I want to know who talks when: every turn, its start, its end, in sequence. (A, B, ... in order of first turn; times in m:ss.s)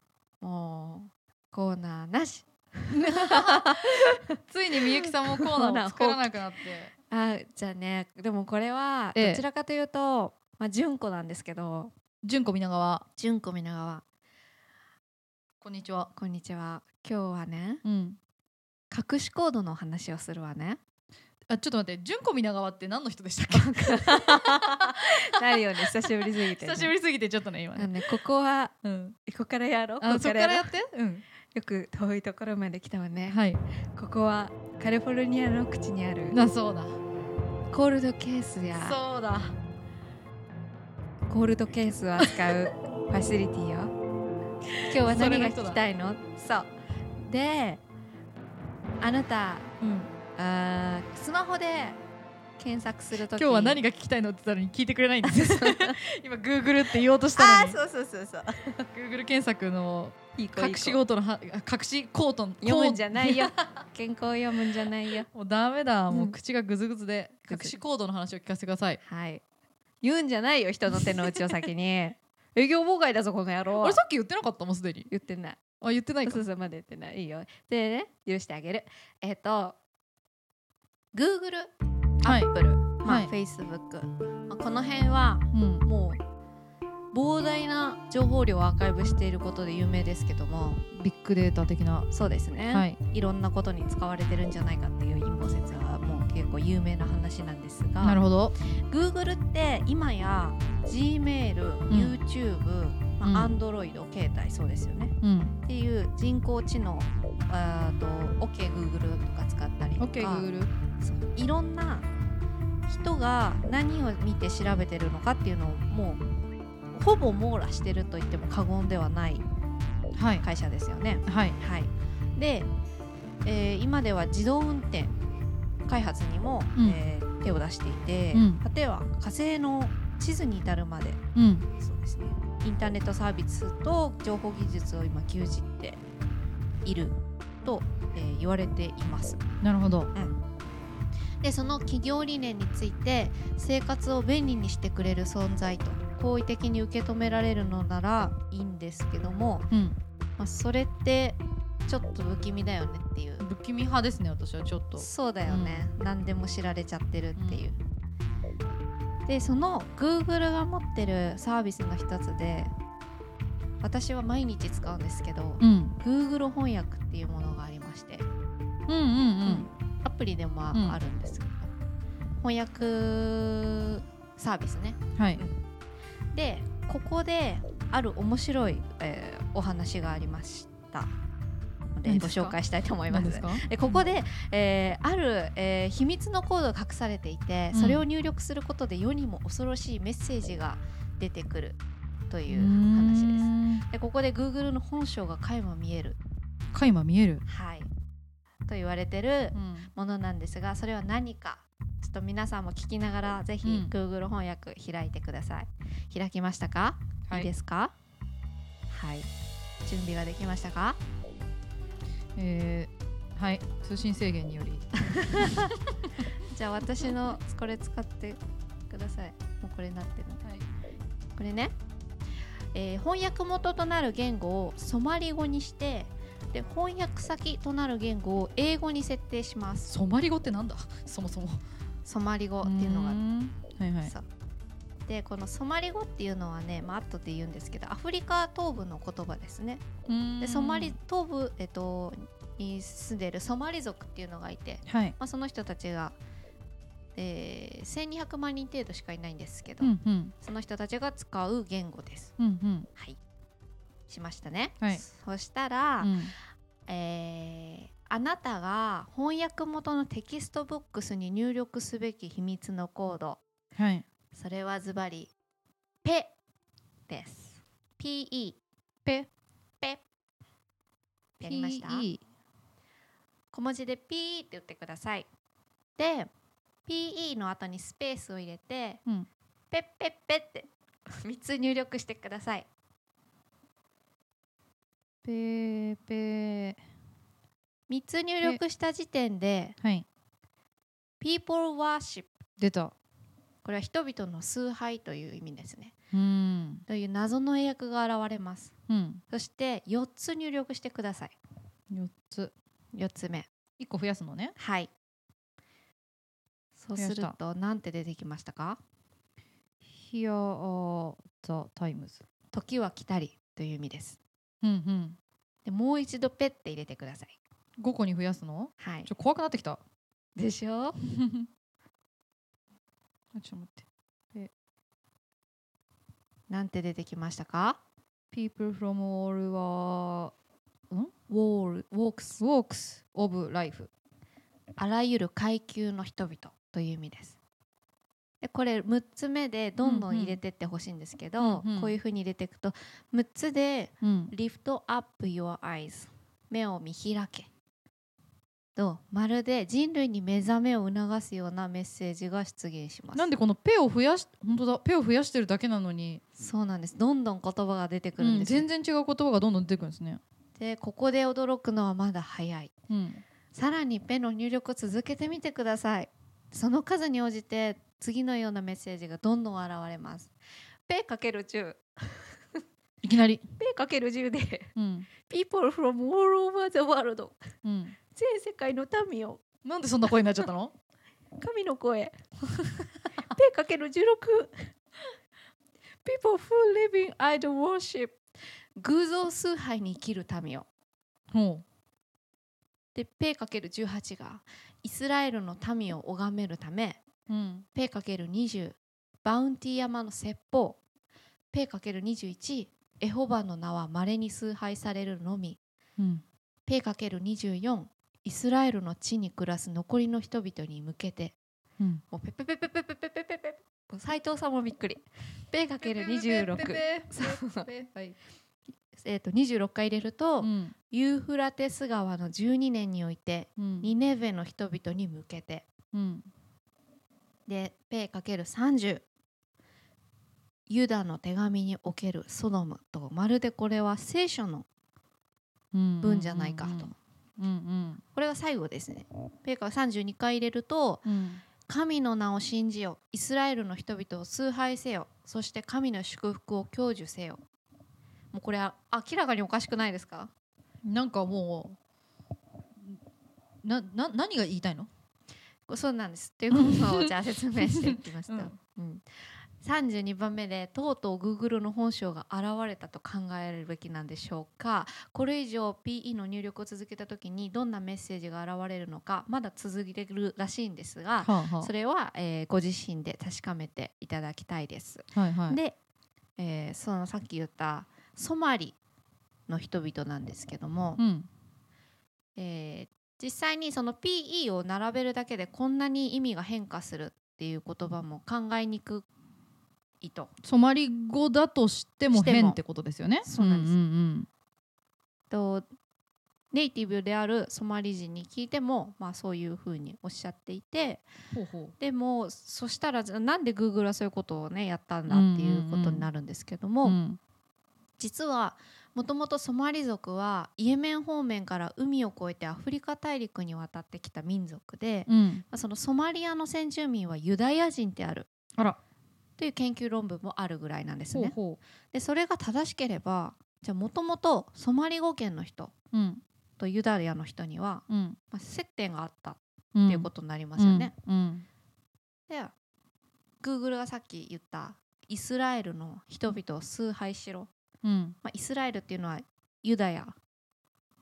0:00.4-0:04.2 A
0:02.9-0:06.9 B
0:04.8-0:06.2 A
0:07.1-0:11.9 A
0:09.1-0:09.4 B
0:12.2-0:13.0 B
0:13.2-0:14.0 A
0:15.6-0:16.1 B
0:16.1-0:17.8 A
0:17.8-0:18.2 B
0:18.9-0:20.8 A
0:21.5-0:28.0 B
0:23.5-0:26.9 A
0:27.7-0:30.7 A
0:28.8-0:29.2 B
0:30.0-0:31.2 B
0:31.5-0:33.4 A
0:33.3-0:33.6 B
0:33.9-0:36.4 A
0:36.3-0:37.0 B
0:37.7-0:39.0 A
0:38.7-0:39.6 B
0:41.3-0:43.9 A
0:42.2-0:42.5 B
0:44.7-0:45.8 B
0:44.8-0:46.7 A
0:47.2-0:47.8 A
0:49.0-0:49.7 A
0:49.8-0:50.1 B
0:50.4-0:52.0 A
0:52.6-0:53.8 A
0:53.1-0:57.8 B
0:55.2-0:56.0 A
0:57.3-0:58.8 A
0:58.8-1:03.5 B
1:00.4-1:01.0 A
1:02.6-1:05.3 A
1:05.3-1:09.0 B
1:06.1-1:06.3 A
1:07.5-1:07.7 A
1:09.0-1:09.4 A
1:10.0-1:14.0 A
1:11.0-1:11.4 B
1:13.8-1:15.1 B
1:15.1-1:15.6 A
1:15.8-1:16.4 B
1:16.2-1:19.8 A
1:21.1-1:26.2 A
1:22.2-1:23.3 B
1:25.5-1:25.8 B
1:27.1-1:30.8 A
1:30.9-1:32.1 B
1:32.1-1:45.1 A
1:32.7-1:33.0 B
1:38.0-1:38.5 B
1:41.9-1:42.2 B
1:43.2-1:43.5 B
1:45.2-1:45.6 B
1:45.6-1:50.4 A
1:50.0-1:50.7 B
1:51.0-1:52.1 A
1:52.9-1:56.2 A
1:56.9-1:59.4 A
2:00.1-2:00.4 B
2:00.4-2:02.7 A
2:01.3-2:01.6 B
2:03.4-2:05.2 A
2:05.8-2:11.2 A
2:08.3-2:08.6 B
2:11.3-2:11.6 B
2:11.8-2:16.0 A
2:16.8-2:19.4 A
2:19.6-2:20.1 B
2:21.4-2:29.7 A
2:29.7-2:30.0 B
2:30.4-2:33.4 A
2:33.4-2:35.8 B
2:35.0-2:37.8 A
2:37.4-2:37.6 B
2:39.2-2:42.7 A
2:43.8-2:48.3 A
2:45.6-2:46.0 B
2:48.9-2:49.7 B
2:49.4-2:51.7 A
2:50.7-2:51.0 B
2:52.4-2:55.6 A
2:55.2-2:55.4 B
2:56.3-3:01.1 A
3:01.9-3:11.8 A
3:02.0-3:02.6 B
3:03.1-3:04.0 B
3:07.7-3:08.0 B
3:12.3-3:16.2 A
3:12.5-3:13.8 B
3:16.7-3:17.4 B
3:17.4-3:17.9 A
3:18.7-3:27.9 A
3:19.5-3:19.9 B
3:23.6-3:23.9 B
3:28.9-3:29.3 A
3:29.8-3:31.0 A
3:32.4-3:35.5 B
3:35.1-3:35.7 A
3:36.5-3:40.4 A
3:41.4-3:41.7 A
3:42.7-3:49.9 A
3:49.9-3:51.6 B
3:52.0-3:53.2 A
3:52.6-3:54.1 B
3:55.0-3:59.8 A
4:00.0-4:01.0 B
4:00.4-4:06.2 A
4:04.8-4:05.1 B
4:07.1-4:12.3 A
4:09.8-4:10.3 B
4:12.4-4:12.9 B
4:14.1-4:16.2 A
4:16.0-4:16.3 B
4:16.9-4:23.4 A
4:23.8-4:24.0 B
4:24.3-4:25.3 A
4:26.0-4:26.3 A
4:27.1-4:28.6 A
4:31.4-4:32.1 A
4:31.4-4:32.2 B
4:33.5-4:35.3 A
4:36.0-4:36.3 A
4:36.8-4:39.0 A
4:39.7-4:42.7 A
4:45.2-4:46.8 B
4:47.9-4:49.8 A
4:49.8-4:50.0 B
4:51.2-4:52.4 A
4:52.6-4:52.9 B
4:53.6-4:55.9 A
4:56.1-4:56.8 B
4:56.9-4:58.7 A
4:58.9-4:59.2 B
4:59.3-5:01.4 A
5:01.9-5:02.5 B
5:02.9-5:03.5 A
5:03.8-5:04.6 B
5:04.6-5:04.9 A
5:06.8-5:08.8 A
5:06.9-5:07.3 B
5:09.8-5:12.2 B
5:12.5-5:14.2 A
5:14.6-5:15.2 B
5:15.6-5:17.4 A
5:17.8-5:19.8 B
5:18.8-5:19.1 A
5:20.4-5:21.0 A
5:21.0-5:21.5 B
5:23.3-5:24.5 B
5:26.5-5:27.8 A
5:28.3-5:30.3 B
5:30.9-5:33.9 B
5:31.7-5:32.4 A
5:34.8-5:37.4 A
5:38.4-5:47.5 A
5:39.8-5:40.4 B
5:41.4-5:42.0 B
5:44.0-5:44.3 B
5:48.8-5:53.3 A
5:53.1-5:56.2 B
5:56.4-5:58.6 A
5:58.2-6:00.2 B
6:00.6-6:02.7 A
6:02.9-6:03.2 B
6:03.5-6:10.3 A
6:10.9-6:12.6 A
6:13.0-6:13.4 B
6:13.6-6:17.4 A
6:14.8-6:15.1 B
6:17.6-6:18.0 B
6:18.1-6:19.4 A
6:19.6-6:20.7 B
6:21.4-6:22.2 A
6:23.3-6:24.7 A
6:26.0-6:28.2 A
6:28.8-6:30.7 A
6:31.3-6:31.6 B
6:32.9-6:37.0 A
6:37.3-6:37.6 B
6:37.7-6:40.8 A
6:41.5-6:45.6 A
6:46.0-6:46.2 B
6:46.7-6:51.4 A
6:52.1-6:57.7 A
6:55.8-6:58.2 B
6:58.9-7:05.7 A
7:00.4-7:00.7 B
7:03.6-7:03.9 B
7:05.9-7:06.3 B
7:07.5-7:09.0 A
7:10.7-7:14.6 A
7:15.7-7:18.0 B
7:16.0-7:16.9 A
7:18.1-7:21.0 A
7:21.0-7:21.4 B
7:21.6-7:27.4 A
7:28.3-7:30.3 A
7:30.8-7:31.8 B
7:33.6-7:34.9 B
7:35.7-7:39.0 A
7:36.5-7:38.6 B
7:39.6-7:55.8 A
7:51.2-7:51.7 B
7:55.1-7:55.6 B
7:56.4-7:58.8 A
7:59.5-8:01.0 A
8:01.0-8:01.3 B
8:02.4-8:09.0 A
8:10.0-8:10.3 A
8:10.4-8:14.3 B
8:12.1-8:12.6 A
8:13.2-8:13.8 A
8:15.3-8:15.6 A
8:16.5-8:21.0 A
8:21.3-8:21.7 B
8:21.8-8:27.0 A
8:25.1-8:26.0 B
8:26.8-8:27.2 B
8:28.0-8:38.3 A
8:35.1-8:35.4 B
8:39.4-8:41.4 A
8:41.1-8:41.6 B
8:41.9-8:45.7 A
8:45.9-8:46.2 B
8:46.6-8:50.9 A
8:47.9-8:48.2 B
8:49.7-8:51.4 B
8:53.4-8:57.5 A
8:57.8-8:58.2 B
8:58.2-9:00.2 A